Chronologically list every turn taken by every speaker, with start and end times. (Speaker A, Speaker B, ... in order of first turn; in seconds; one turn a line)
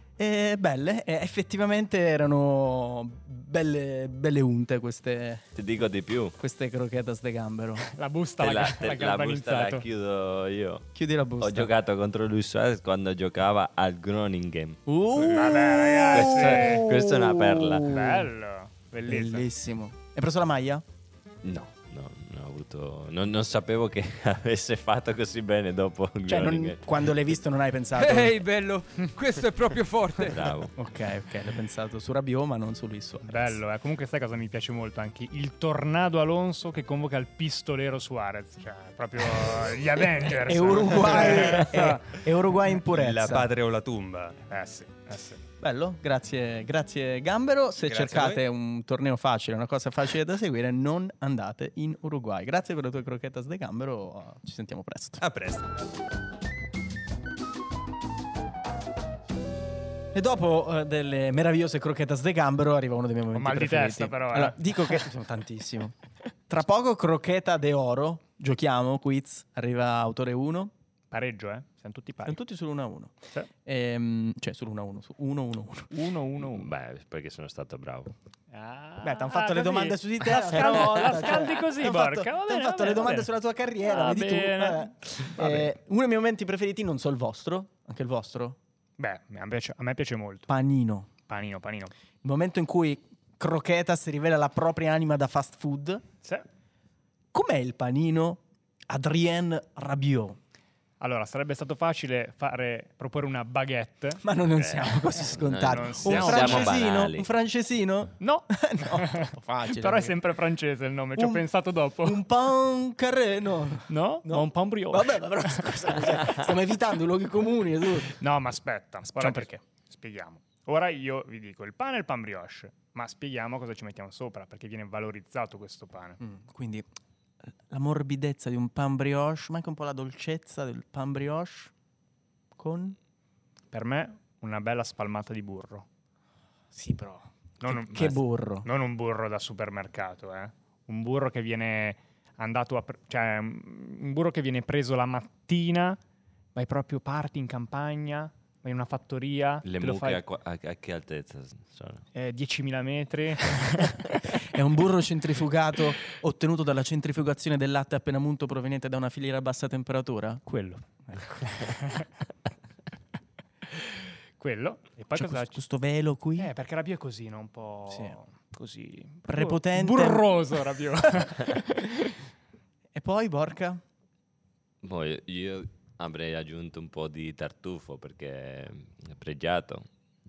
Speaker A: 0.2-5.4
Speaker B: 5.6-6.4
Speaker A: 6.4-7.8
Speaker C: 7.9-9.8
Speaker B: 8.4-10.9
Speaker A: 10.9-11.7
Speaker B: 11.4-14.8
Speaker A: 14.9-18.3
Speaker C: 15.3-16.9
Speaker B: 16.1-17.9
Speaker C: 17.9-19.5
Speaker A: 19.1-20.8
Speaker B: 21.4-26.9
Speaker A: 26.3-28.4
Speaker D: 27.9-30.5
Speaker B: 30.3-30.7
Speaker A: 30.8-33.6
Speaker C: 33.3-42.0
Speaker A: 40.3-43.5
Speaker E: 42.9-44.4
Speaker C: 44.5-45.4
Speaker A: 45.6-55.2
Speaker E: 47.8-48.4
Speaker E: 55.2-55.8
Speaker A: 60.1-66.0
Speaker C: 63.3-65.0
Speaker A: 66.5-70.7
Speaker C: 71.1-72.4
Speaker A: 72.2-75.9
Speaker C: 75.9-76.7
Speaker B: 76.4-78.1
Speaker C: 78.5-83.3
Speaker A: 79.0-88.6
Speaker C: 83.8-85.7
Speaker C: 89.0-90.5
Speaker A: 90.5-91.1
Speaker C: 91.3-91.9
Speaker A: 92.2-96.0
Speaker A: 97.3-100.4
Speaker C: 101.0-104.2
Speaker A: 104.2-110.2
Speaker B: 104.6-107.3
Speaker C: 105.7-106.8
Speaker C: 108.2-112.2
Speaker A: 111.2-111.5
Speaker A: 112.0-118.2
Speaker C: 113.9-116.0
Speaker C: 118.2-126.2
Speaker A: 119.1-119.6
Speaker A: 126.2-126.9
Speaker A: 127.7-131.7
Speaker A: 132.6-133.0
Speaker C: 133.7-135.9
Speaker A: 136.7-138.7
Speaker C: 137.6-146.0
Speaker C: 146.6-150.2
Speaker B: 149.6-152.0
Speaker C: 152.2-154.2
Speaker A: 154.4-160.5
Speaker C: 160.5-162.1
Speaker C: 163.7-165.6
Speaker A: 165.1-166.5
Speaker C: 166.4-172.2
Speaker A: 167.9-168.2
Speaker A: 169.3-170.4
Speaker A: 172.9-173.8
Speaker B: 174.8-179.9